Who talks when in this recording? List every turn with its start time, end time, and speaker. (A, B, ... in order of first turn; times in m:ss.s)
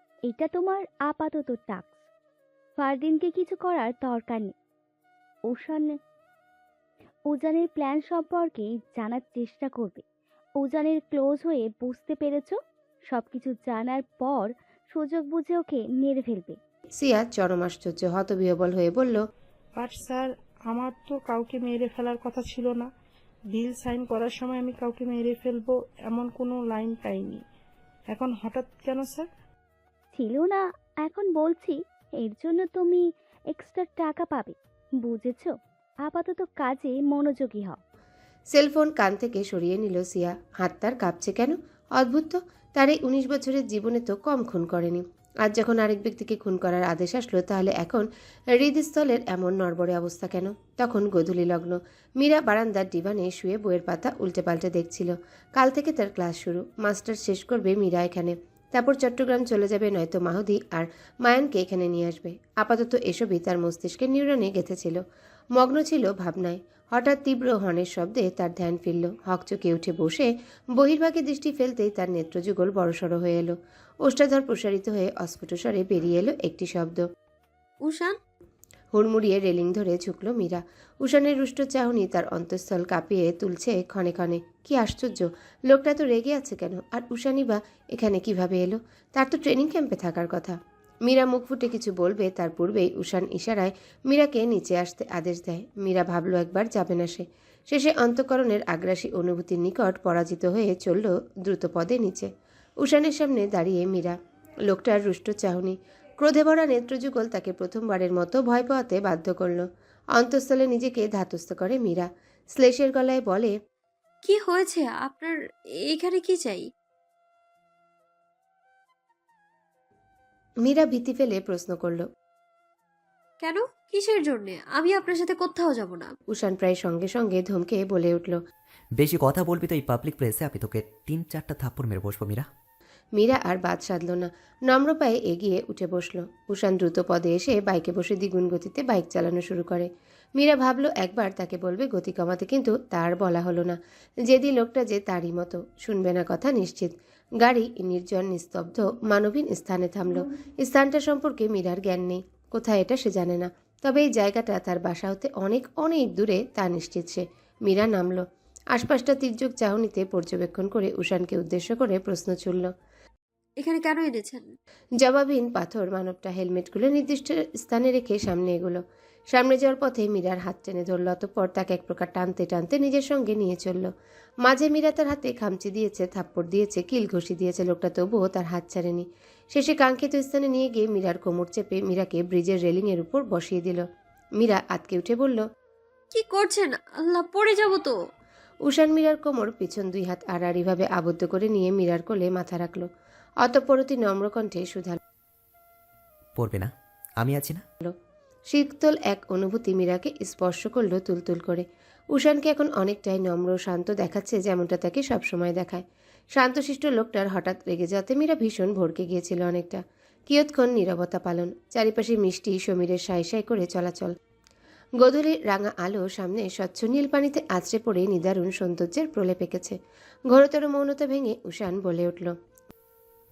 0:00.2-0:02.0 A
0:02.8-0:04.5 A
0:05.5-0:05.9 A
0:07.3-0:10.0 A
0:10.6-0:16.6 A
0:17.0-0:19.2 B
0:19.8-0:22.9 C
0:23.5-0:27.4 C
0:28.1-0:29.3 C
0:30.1-0:37.8 A
0:38.5-1:05.0 B
1:05.6-1:17.0 B
1:17.8-1:18.2 D
1:18.9-1:42.3 B
1:42.8-1:44.2 B
1:44.7-1:53.5 B
1:54.2-1:56.7 D
2:00.6-2:02.1 B
2:03.4-2:06.1 D
2:06.3-2:08.4 B
2:09.0-2:12.4 E
2:13.2-2:42.7 B
2:43.6-2:44.5 D
2:45.0-2:53.9 B
2:54.4-3:03.8 B
3:04.4-3:05.4 B
3:06.1-3:08.0 D
3:08.6-3:12.9 B
3:13.4-3:15.0 B
3:16.4-3:17.6 E
3:18.5-3:25.8 B
3:26.4-3:34.1 B
3:35.0-3:39.8 B
3:40.3-3:42.3 B